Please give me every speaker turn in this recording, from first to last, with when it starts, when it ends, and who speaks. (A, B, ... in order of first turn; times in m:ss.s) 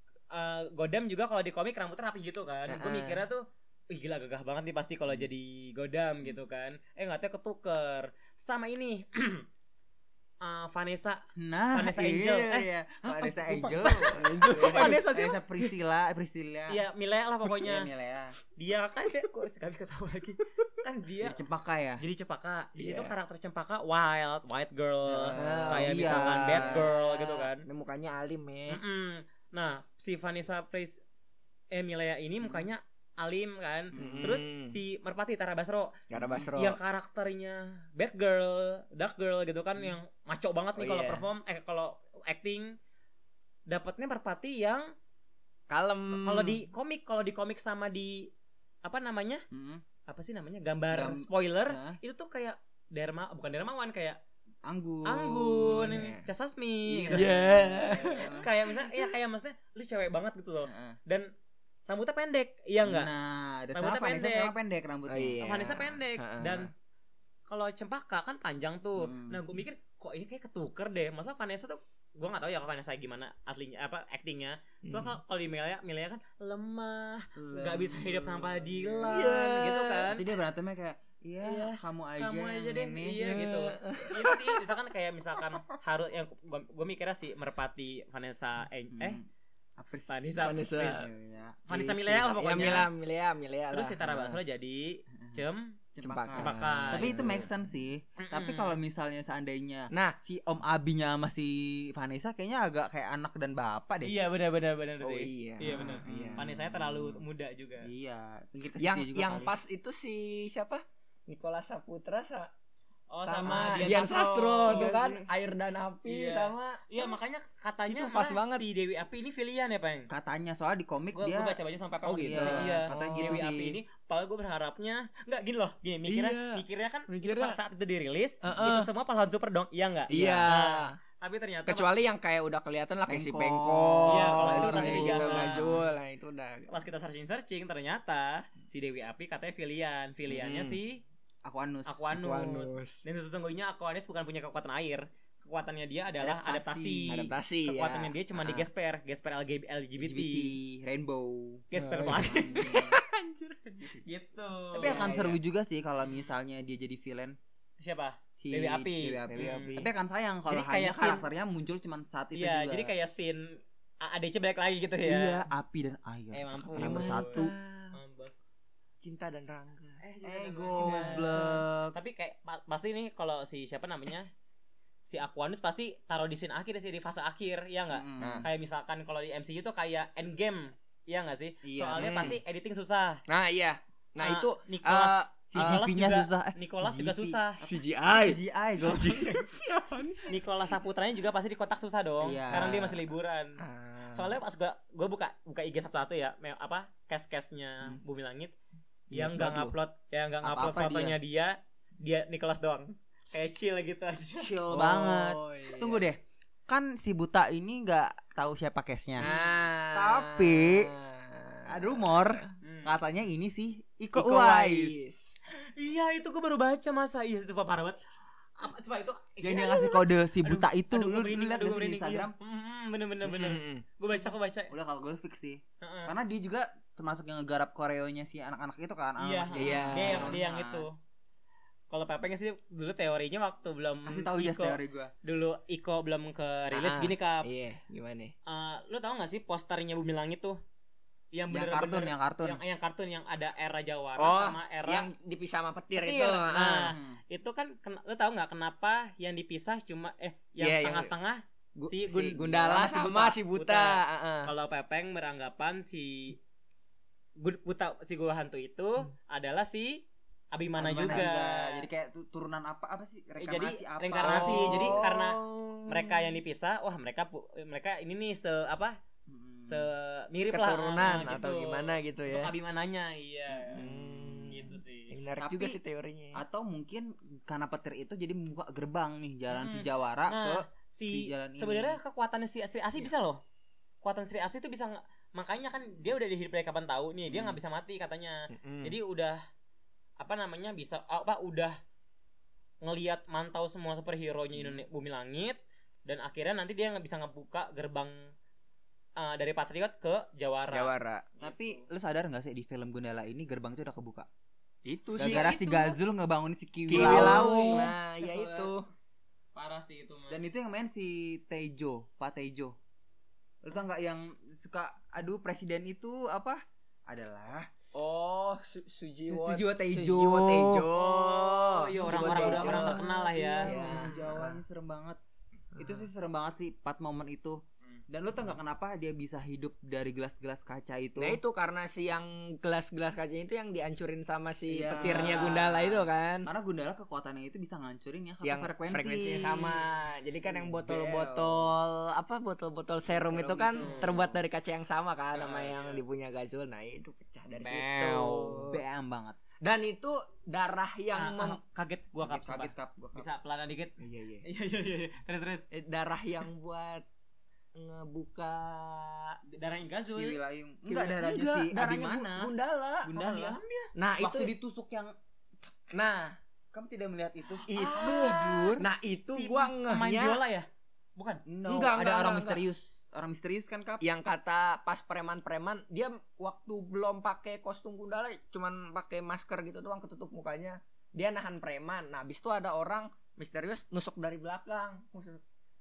0:00.3-0:09.4 A
0:02.7-0:03.2 B
0:10.4-0:12.7 A
0:11.4-0:16.8 C
0:13.0-0:15.0 B
0:14.5-0:15.4 A
0:16.7-0:17.9 A
0:17.6-0:18.4 C
0:18.6-0:21.4 A
0:21.2-0:22.0 C
0:22.0-0:27.6 A
0:22.8-0:23.1 B
0:25.0-0:26.9 C
0:25.3-0:28.8 B
0:28.7-0:31.0 A
0:31.7-0:42.7 A
0:32.4-0:32.7 C
0:33.9-0:34.4 C
0:33.9-0:34.8 B
0:36.1-0:36.8 B
0:36.2-0:36.5 C
0:40.8-0:41.2 B
0:43.7-0:44.8 A
0:45.7-0:46.6 B
0:46.2-0:48.3 A
0:48.8-0:49.4 A
0:49.5-0:49.8 C
0:50.1-0:54.2 A
0:50.9-0:52.0 C
0:54.6-0:56.0 C
0:55.0-0:57.3 A
0:55.6-0:56.2 B
0:56.9-0:58.5 C
0:57.1-0:58.3 B
0:58.0-1:01.3 A
1:00.6-1:01.0 C
1:01.9-1:03.1 A
1:02.8-1:05.4 C
1:03.7-1:04.5 A
1:05.1-1:06.7 B
1:05.4-1:06.7 A
1:07.5-1:20.3 A
1:09.0-1:09.4 C
1:14.8-1:15.2 B
1:17.4-1:23.4 C
1:19.0-1:20.1 B
1:21.4-1:29.2 A
1:23.2-1:24.6 B
1:28.9-1:29.2 C
1:29.8-1:30.2 C
1:30.1-1:31.1 A
1:30.4-1:31.1 B
1:30.9-1:31.6 C
1:31.7-1:32.9 A
1:31.7-1:34.4 B
1:33.7-1:35.8 A
1:36.0-1:44.2 C
1:36.0-1:37.5 B
1:36.3-1:37.2 A
1:38.2-1:38.8 A
1:39.9-1:40.2 B
1:44.0-1:47.9 A
1:45.0-1:46.4 B
1:46.0-1:47.2 C
1:47.8-1:49.5 C
1:48.8-1:52.5 B
1:53.1-1:54.9 A
1:53.2-1:54.0 C
1:53.2-1:57.2 B
1:54.7-1:55.3 C
1:56.1-2:00.1 A
1:57.9-1:58.6 B
2:00.1-2:01.6 C
2:01.1-2:11.9 A
2:02.0-2:03.4 B
2:02.2-2:03.8 C
2:06.1-2:07.6 B
2:08.4-2:08.9 B
2:10.1-2:11.0 B
2:10.1-2:10.5 C
2:11.6-2:16.7 B
2:13.1-2:15.8 C
2:14.1-2:15.8 A
2:16.7-2:21.0 A
2:20.3-2:20.8 B
2:21.4-2:22.1 C
2:21.8-2:30.5 A
2:22.1-2:23.0 B
2:26.2-2:27.3 C
2:27.1-2:28.7 B
2:30.0-2:31.6 C
2:31.7-2:32.8 A
2:31.8-2:34.0 B
2:32.2-2:33.0 C
2:33.9-2:35.2 A
2:34.7-2:37.4 C
2:34.8-2:35.4 B
2:36.0-2:36.3 A
2:37.8-2:39.8 A
2:38.4-2:42.9 C
2:39.3-2:39.9 B
2:40.5-2:41.3 A
2:42.3-2:45.4 A
2:45.0-2:47.5 C
2:46.3-2:48.4 A
2:46.7-2:48.0 B
2:49.0-2:50.0 B
2:50.0-2:54.3 A
2:50.2-2:51.9 C
2:50.8-2:51.6 B
2:55.0-3:03.2 A
2:57.9-2:58.5 C
2:58.2-2:58.4 B
3:01.6-3:02.4 C
3:02.0-3:02.4 B
3:03.3-3:05.8 B
3:04.2-3:07.6 A
3:05.5-3:07.4 C
3:07.6-3:10.4 B
3:08.0-3:09.4 C
3:08.9-3:09.3 A
3:10.3-3:13.6 A
3:12.2-3:13.0 C
3:12.5-3:13.0 B
3:13.6-3:14.3 B
3:14.1-3:18.5 A
3:19.1-3:19.7 B
3:19.1-3:24.5 A
3:20.4-3:21.2 C
3:24.4-3:29.3 C
3:24.7-3:26.0 B
3:29.2-3:32.5 B
3:29.9-3:30.9 C
3:31.7-3:34.9 C
3:32.6-3:33.0 A
3:34.1-3:35.3 B
3:35.5-3:38.0 A
3:38.6-3:44.7 A
3:39.4-3:42.3 C
3:43.2-3:43.8 B
3:44.7-3:50.8 C
3:45.8-3:46.1 A
3:49.2-3:51.0 A
3:49.6-3:50.4 B
3:51.9-3:57.4 A
3:54.0-3:55.1 C
3:56.7-3:58.3 B
3:58.4-4:00.6 A
4:01.3-4:05.1 A
4:01.5-4:02.6 C
4:04.2-4:06.9 B
4:06.0-4:16.4 A
4:06.9-4:07.2 C
4:10.6-4:11.1 B
4:11.8-4:14.5 B
4:12.5-4:13.4 C
4:17.4-4:21.8 A
4:20.8-4:25.1 C
4:21.0-4:21.3 B
4:23.4-4:29.0 A
4:24.2-4:26.3 B
4:29.3-4:29.9 C
4:29.7-4:35.1 A
4:30.5-4:32.5 B
4:33.5-4:34.5 C
4:33.7-4:36.4 B
4:35.4-4:35.8 C
4:36.3-4:42.0 C
4:39.5-4:43.4 A
4:44.0-4:49.4 A
4:47.3-4:47.6 C
4:48.5-4:49.0 B
4:50.2-4:51.8 A
4:52.8-4:58.3 A
4:59.2-5:01.8 A
5:00.7-5:01.2 B
5:01.4-5:04.3 C
5:04.8-5:05.6 B
5:05.2-5:06.0 A
5:05.2-5:07.9 C
5:06.9-5:08.8 B
5:06.9-5:08.8 A
5:09.5-5:10.4 A
5:10.3-5:12.8 C
5:13.6-5:17.7 C
5:17.9-5:23.0 B
5:19.2-5:20.9 C
5:21.0-5:24.1 A
5:21.9-5:25.2 C
5:23.6-5:24.6 B
5:25.8-5:26.0 B
5:25.8-5:31.4 C
5:31.2-5:36.5 B
5:34.7-5:39.8 C
5:35.0-5:35.6 A
5:38.4-5:48.8 B
5:40.4-5:41.7 C
5:43.1-5:44.4 C
5:43.8-5:44.1 A
5:45.3-5:46.0 A
5:47.5-5:48.6 A
5:48.7-5:49.4 C
5:49.6-5:51.6 B
5:51.1-5:53.9 A
5:52.2-5:53.3 C
5:54.0-5:54.4 B
5:54.4-5:55.7 A
5:55.7-5:57.0 B
5:57.8-5:59.4 B
5:59.5-6:00.4 A
6:00.1-6:02.5 C
6:00.9-6:03.2 B
6:03.0-6:03.6 C
6:03.1-6:03.9 A
6:04.0-6:04.5 B
6:04.2-6:05.1 C
6:05.9-6:06.4 B
6:06.7-6:08.8 C
6:07.7-6:10.4 B
6:07.7-6:08.7 A
6:09.3-6:11.4 A
6:11.4-6:14.0 C
6:11.7-6:12.6 B
6:14.0-6:25.4 B